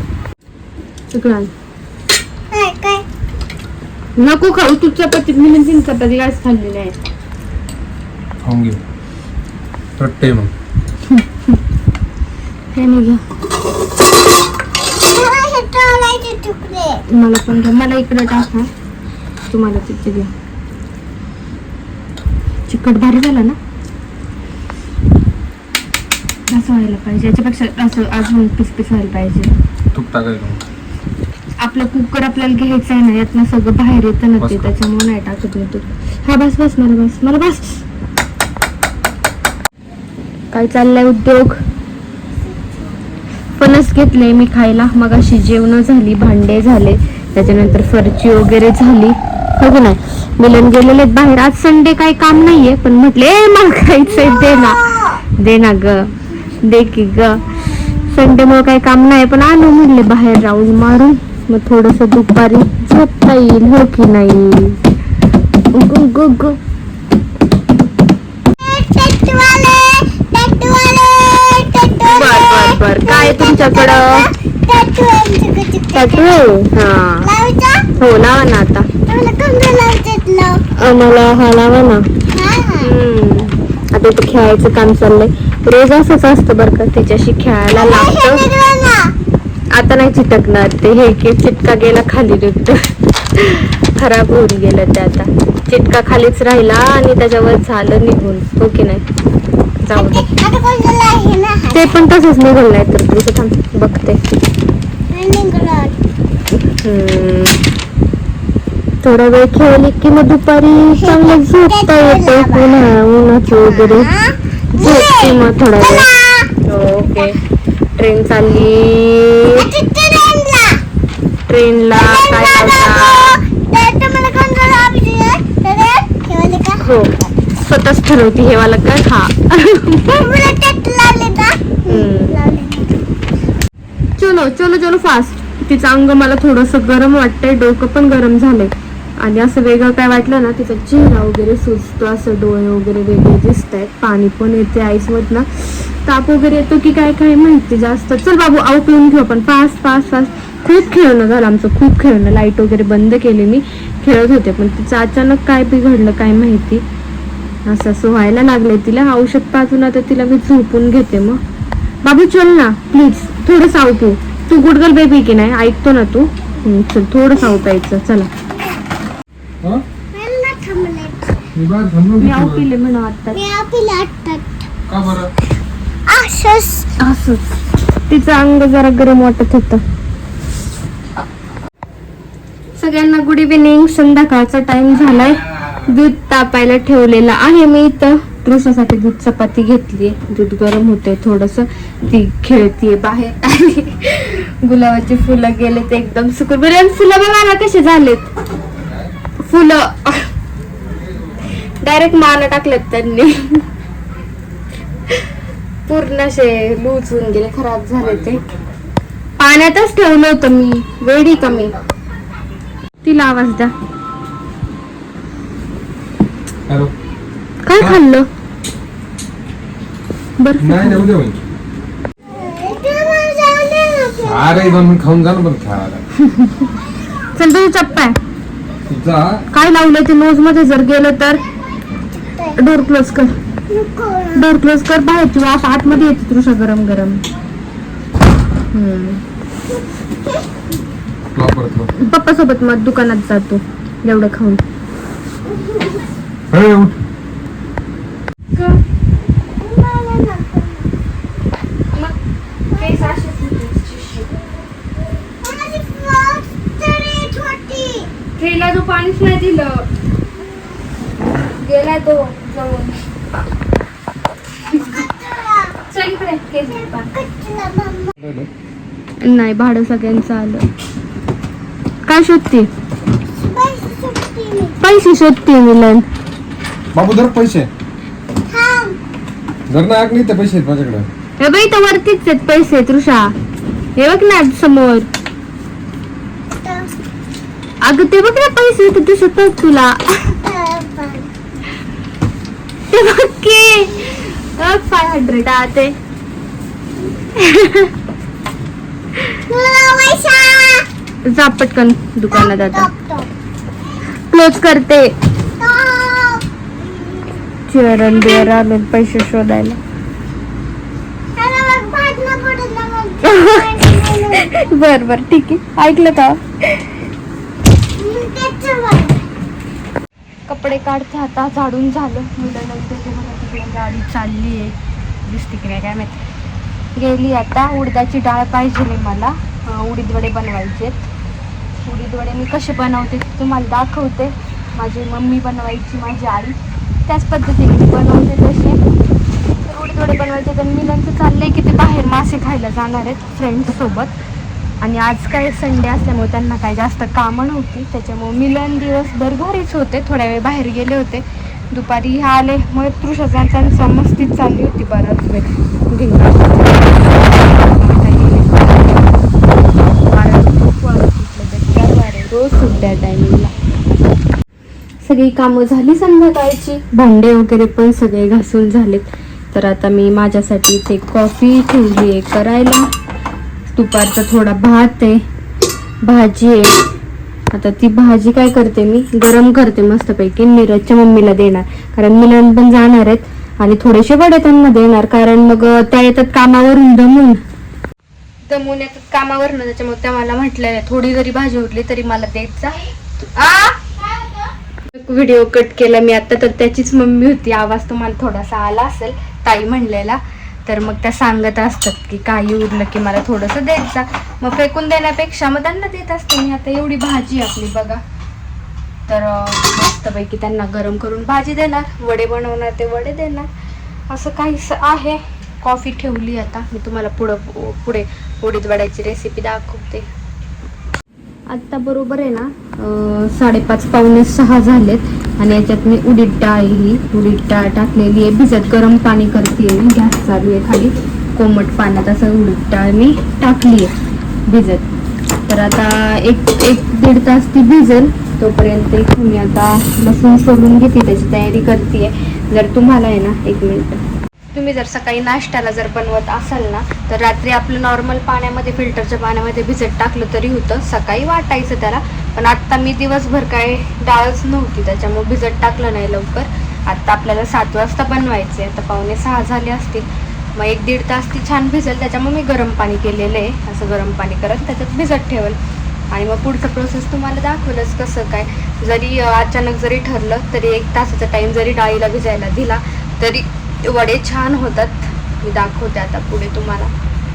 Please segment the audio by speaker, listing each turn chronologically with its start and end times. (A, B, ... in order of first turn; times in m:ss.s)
0:01.1-0:01.5 A
0:02.5-0:03.0 B
0:04.2-0:06.9 A
0:08.4-0:08.8 C
0:10.0-0:10.5 C
0:11.1-0:11.6 A
0:12.7-0:13.2 A
0:15.0-0:17.0 B
0:17.1-0:18.7 A
0:19.5-0:20.3 A
0:22.7-0:23.6 A
0:26.5-0:29.5 A
0:29.9-0:30.6 C
0:31.6-0:37.8 A
0:34.4-0:34.7 C
0:40.5-0:41.6 A
0:43.6-1:04.8 A
0:54.0-0:55.2 B
1:05.7-1:06.6 A
1:08.6-1:16.6 B
1:12.1-1:14.3 A
1:15.9-1:17.3 A
1:17.2-1:17.9 B
1:18.0-1:18.9 A
1:19.1-1:20.6 B
1:20.7-1:22.1 A
1:22.3-1:22.9 B
1:22.8-1:28.4 A
1:27.7-1:29.1 B
1:29.7-1:39.0 A
1:39.8-1:40.2 A
1:39.9-1:41.9 B
1:41.7-1:44.2 A
1:45.1-1:46.0 B
1:46.5-1:47.6 A
1:49.0-1:54.1 A
1:51.0-1:52.7 B
1:53.6-1:56.5 B
1:54.7-1:56.1 A
1:56.6-1:57.4 A
1:58.0-1:59.7 A
1:59.5-2:00.8 B
2:01.5-2:03.4 A
2:01.9-2:06.8 B
2:06.8-2:10.2 A
2:10.1-2:12.9 B
2:11.9-2:12.4 A
2:14.2-2:36.8 A
2:37.6-2:41.4 A
2:42.0-2:48.3 A
2:50.1-2:51.4 B
2:51.5-2:52.6 C
2:52.2-2:53.4 A
2:53.3-2:54.7 B
2:54.9-2:55.3 C
2:56.1-2:56.9 B
2:57.0-2:57.6 A
2:58.1-2:59.8 A
3:02.8-3:18.3 A
3:19.4-3:20.3 A
3:21.8-3:23.6 A
3:25.9-3:28.4 A
3:29.4-3:31.8 A
3:33.0-3:33.7 A
3:37.6-3:38.3 A
3:40.4-3:41.1 A
3:40.6-3:41.4 C
3:42.3-3:44.8 B
3:44.2-3:46.0 C
3:46.2-3:46.7 A
3:47.4-3:48.2 A
3:48.9-3:49.4 C
3:49.5-3:51.4 A
3:52.2-3:52.6 B
3:52.6-3:53.4 A
3:53.7-3:54.4 B
3:54.3-3:57.2 A
3:58.7-3:59.2 A
4:01.3-4:01.9 C
4:02.0-4:04.6 A
4:05.5-4:06.0 B
4:06.5-4:07.0 C
4:09.6-4:10.9 B
4:12.7-4:14.4 A
4:12.7-4:13.2 B
4:15.4-4:18.1 B
4:18.4-4:19.9 A
4:21.6-4:23.0 A
4:24.7-4:25.0 A
4:24.8-4:25.8 B
4:25.9-4:27.1 A
4:26.7-4:28.1 B
4:28.2-4:28.5 C
4:29.2-4:30.7 A
4:32.0-4:32.7 A
4:33.3-4:34.8 B
4:34.8-4:36.0 A
4:36.9-4:37.7 C
4:38.5-4:39.0 B
4:39.7-4:41.0 C
4:41.4-4:43.3 A
4:44.0-4:45.1 A
4:46.6-4:46.9 B
4:47.8-4:50.4 A
4:50.4-4:51.3 B
4:52.9-4:55.9 A
4:57.4-4:57.9 A
4:59.5-5:00.9 B
5:01.3-5:02.9 A
5:02.3-5:03.3 B
5:04.3-5:05.1 A
5:05.6-5:07.4 B
5:07.7-5:09.8 A
5:08.1-5:08.5 B
5:11.4-5:14.7 B
5:13.2-5:16.9 A
5:18.0-5:19.2 B
5:20.5-5:26.2 A
5:27.0-5:31.0 A
5:31.8-5:38.8 A
5:39.6-5:44.2 A
5:44.8-5:59.0 A
6:00.1-6:03.5 A
6:05.0-6:12.9 A
6:13.7-6:15.2 A
6:16.0-6:16.8 A
6:17.5-6:27.4 A
6:28.5-6:33.9 A
6:34.9-6:48.0 A
6:49.1-6:53.5 A
6:54.1-7:00.1 A
7:01.5-7:13.9 A
7:14.5-7:14.9 A
7:15.5-7:24.0 A
7:24.5-7:45.6 A
7:46.1-7:56.9 A